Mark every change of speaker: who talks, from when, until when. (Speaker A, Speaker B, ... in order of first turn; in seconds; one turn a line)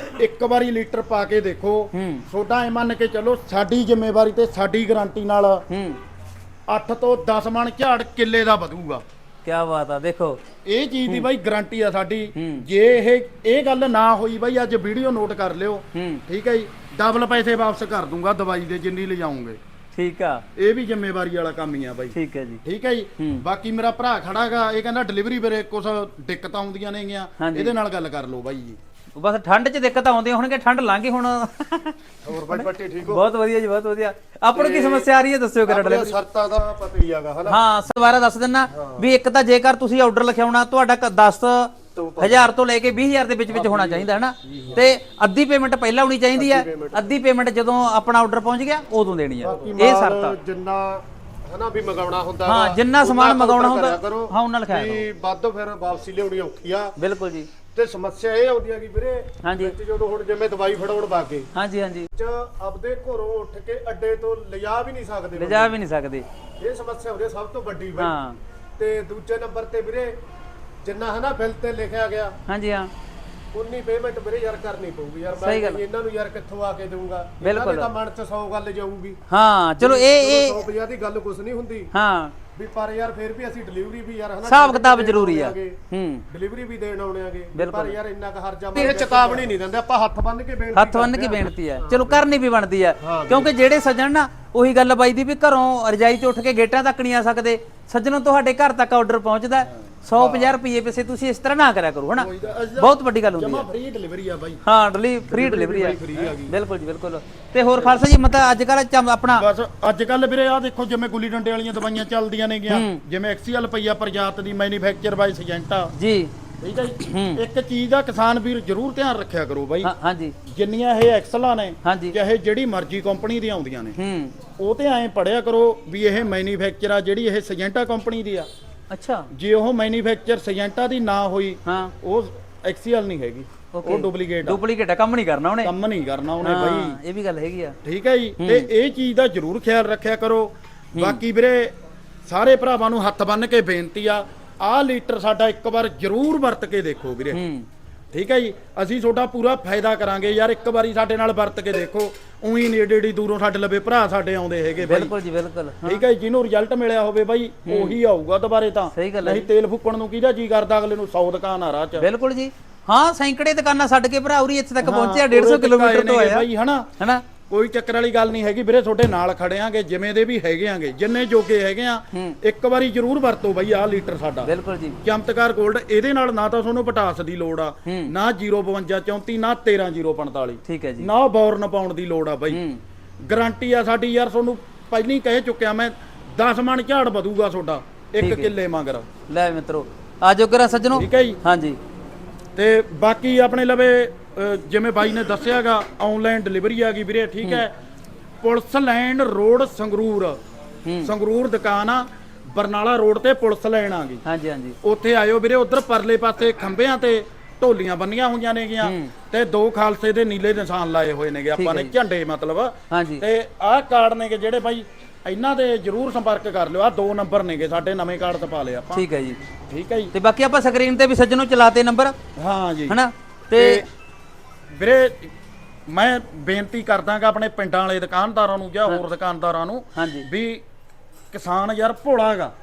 Speaker A: 0.2-5.6
Speaker B: 1.9-2.2
Speaker B: 5.7-6.0
Speaker A: 6.7-9.0
Speaker B: 9.4-10.4
Speaker A: 10.7-19.6
Speaker B: 12.4-12.7
Speaker B: 15.9-16.2
Speaker B: 19.9-20.4
Speaker A: 20.6-28.8
Speaker B: 22.1-22.6
Speaker B: 23.2-23.4
Speaker B: 27.4-27.8
Speaker B: 29.1-32.0
Speaker C: 32.2-33.2
Speaker B: 32.5-36.1
Speaker C: 34.5-35.1
Speaker C: 35.7-37.6
Speaker B: 37.5-50.4
Speaker C: 38.7-39.1
Speaker C: 41.9-42.5
Speaker C: 43.5-44.8
Speaker C: 46.4-47.1
Speaker C: 49.4-56.9
Speaker B: 52.5-55.1
Speaker B: 57.0-57.5
Speaker C: 57.7-61.5
Speaker B: 59.4-59.8
Speaker B: 61.5-62.1
Speaker C: 62.1-65.8
Speaker B: 65.3-66.2
Speaker C: 66.6-68.2
Speaker B: 68.0-68.4
Speaker C: 68.8-70.2
Speaker C: 70.8-72.4
Speaker B: 72.5-72.9
Speaker C: 73.5-79.2
Speaker B: 75.3-75.8
Speaker B: 77.4-77.9
Speaker B: 79.3-80.6
Speaker C: 79.8-81.9
Speaker B: 81.9-82.3
Speaker C: 82.6-85.8
Speaker B: 84.4-86.2
Speaker C: 86.3-92.2
Speaker B: 87.5-88.0
Speaker B: 88.8-89.4
Speaker B: 90.7-102.3
Speaker C: 93.0-93.5
Speaker A: 100.1-100.6
Speaker A: 102.2-104.6
Speaker B: 102.8-103.7
Speaker B: 104.7-109.5
Speaker A: 105.3-106.5
Speaker A: 107.8-108.0
Speaker A: 109.4-115.9
Speaker B: 112.7-113.0
Speaker B: 116.0-116.3
Speaker A: 116.6-119.9
Speaker B: 117.0-117.4
Speaker B: 119.8-120.4
Speaker A: 120.5-124.0
Speaker B: 121.8-122.2
Speaker B: 124.0-124.3
Speaker A: 124.6-128.5
Speaker B: 128.9-129.3
Speaker A: 129.3-134.6
Speaker B: 131.7-131.9
Speaker B: 133.7-135.7
Speaker A: 135.6-137.0
Speaker B: 136.4-137.8
Speaker A: 137.8-141.7
Speaker B: 138.4-138.7
Speaker A: 142.2-147.4
Speaker B: 147.3-147.7
Speaker A: 148.1-155.1
Speaker B: 154.8-156.0
Speaker A: 155.9-162.1
Speaker B: 157.7-158.0
Speaker B: 158.9-159.5
Speaker B: 162.0-166.5
Speaker A: 164.8-166.9
Speaker B: 167.0-167.2
Speaker A: 167.5-174.5
Speaker B: 174.4-175.0
Speaker A: 175.0-182.6
Speaker B: 180.7-181.1
Speaker B: 182.5-182.8
Speaker A: 183.2-189.1
Speaker B: 188.2-188.5
Speaker B: 189.3-191.8
Speaker A: 190.9-191.4
Speaker A: 192.6-197.7
Speaker A: 198.4-200.4
Speaker B: 200.9-201.1
Speaker A: 201.0-204.2
Speaker B: 204.2-204.8
Speaker A: 204.8-219.1
Speaker B: 208.8-209.1
Speaker B: 211.6-211.9
Speaker B: 212.9-213.2
Speaker B: 218.9-219.4
Speaker A: 219.7-220.1
Speaker B: 220.1-222.2
Speaker A: 222.4-223.0
Speaker B: 222.9-223.8
Speaker A: 223.5-223.9
Speaker A: 224.7-225.3
Speaker A: 225.9-230.6
Speaker B: 229.9-230.3
Speaker A: 231.3-232.5